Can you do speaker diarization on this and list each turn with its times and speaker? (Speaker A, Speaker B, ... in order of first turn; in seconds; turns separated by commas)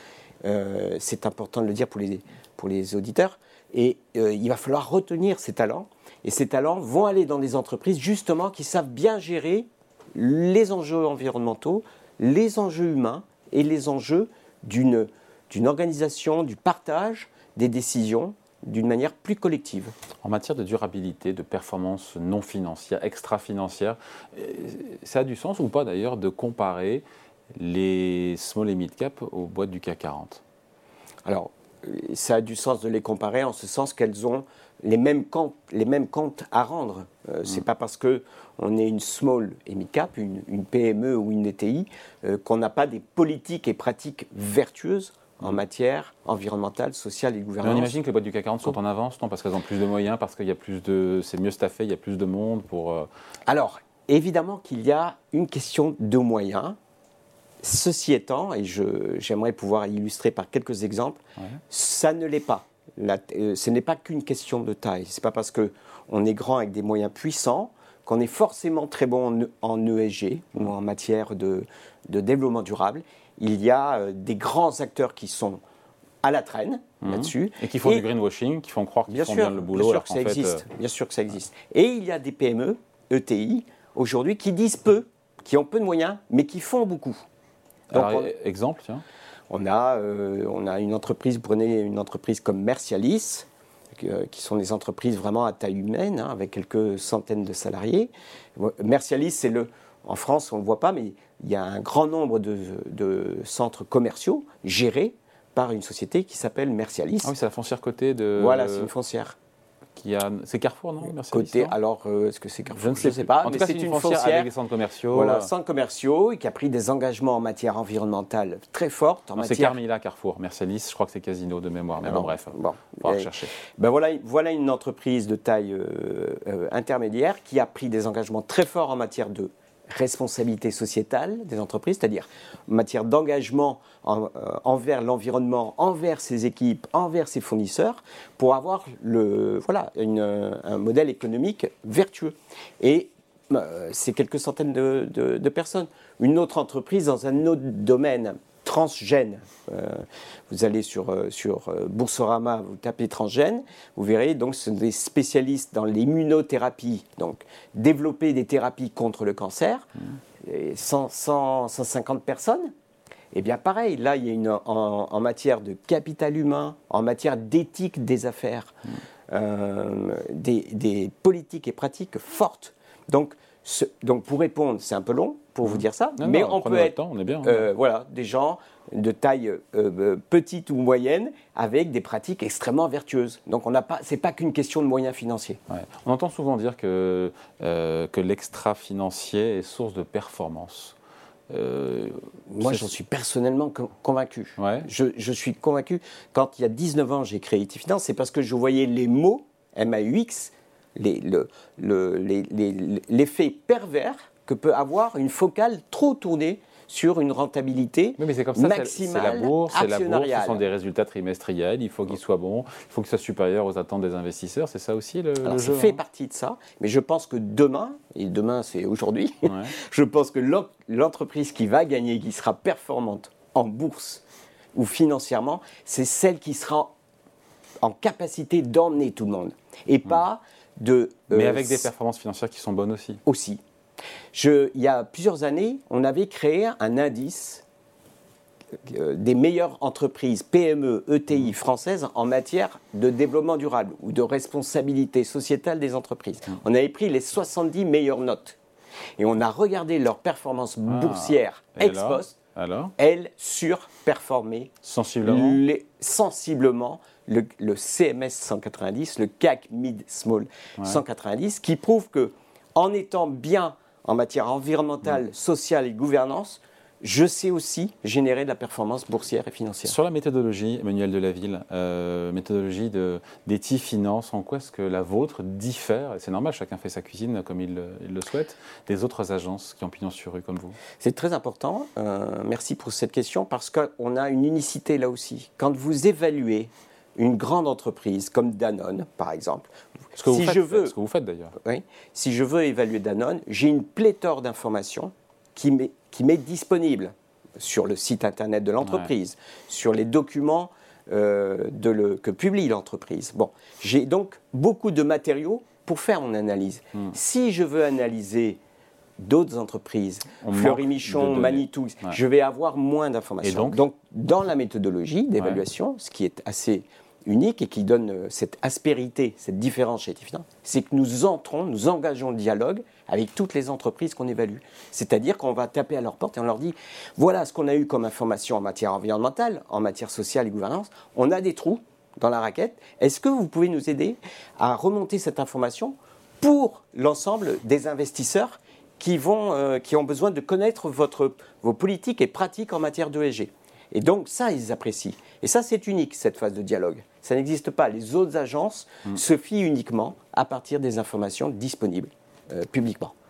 Speaker A: 0.4-19.9, Speaker B: 20.2-27.0, Speaker B: 27.6-30.4, Speaker A: 31.2-47.9, Speaker B: 47.6-53.1, Speaker A: 53.5-56.8, Speaker A: 57.6-75.6, Speaker A: 76.2-78.0, Speaker B: 77.0-80.6, Speaker A: 79.1-87.2, Speaker A: 87.9-88.3, Speaker B: 87.9-89.0, Speaker A: 89.5-107.3, Speaker B: 107.2-108.9, Speaker A: 108.3-109.4, Speaker B: 110.0-111.7, Speaker A: 111.2-114.5, Speaker B: 112.7-115.5, Speaker A: 115.1-119.8, Speaker B: 119.3-123.5, Speaker A: 122.0-159.9, Speaker A: 160.4-162.7, Speaker A: 163.3-168.7, Speaker A: 169.3-185.6, Speaker B: 175.6-177.7, Speaker B: 185.7-190.9, Speaker B: 191.5-192.9, Speaker A: 192.5-210.6, Speaker B: 194.6-194.9, Speaker B: 208.2-216.0, Speaker A: 215.4-224.2, Speaker B: 219.4-219.7, Speaker A: 224.7-226.9, Speaker A: 227.8-231.9, Speaker B: 231.3-233.2, Speaker A: 233.2-233.6, Speaker A: 234.3-237.6, Speaker A: 238.8-248.6, Speaker A: 249.2-252.3, Speaker B: 250.8-252.9, Speaker A: 253.0-254.7, Speaker B: 254.8-255.6, Speaker A: 255.2-270.0, Speaker B: 269.8-280.8, Speaker A: 281.0-290.9, Speaker B: 290.2-291.5, Speaker A: 291.6-308.6, Speaker B: 298.8-299.1, Speaker A: 309.2-353.1, Speaker B: 310.4-312.2, Speaker B: 313.4-313.8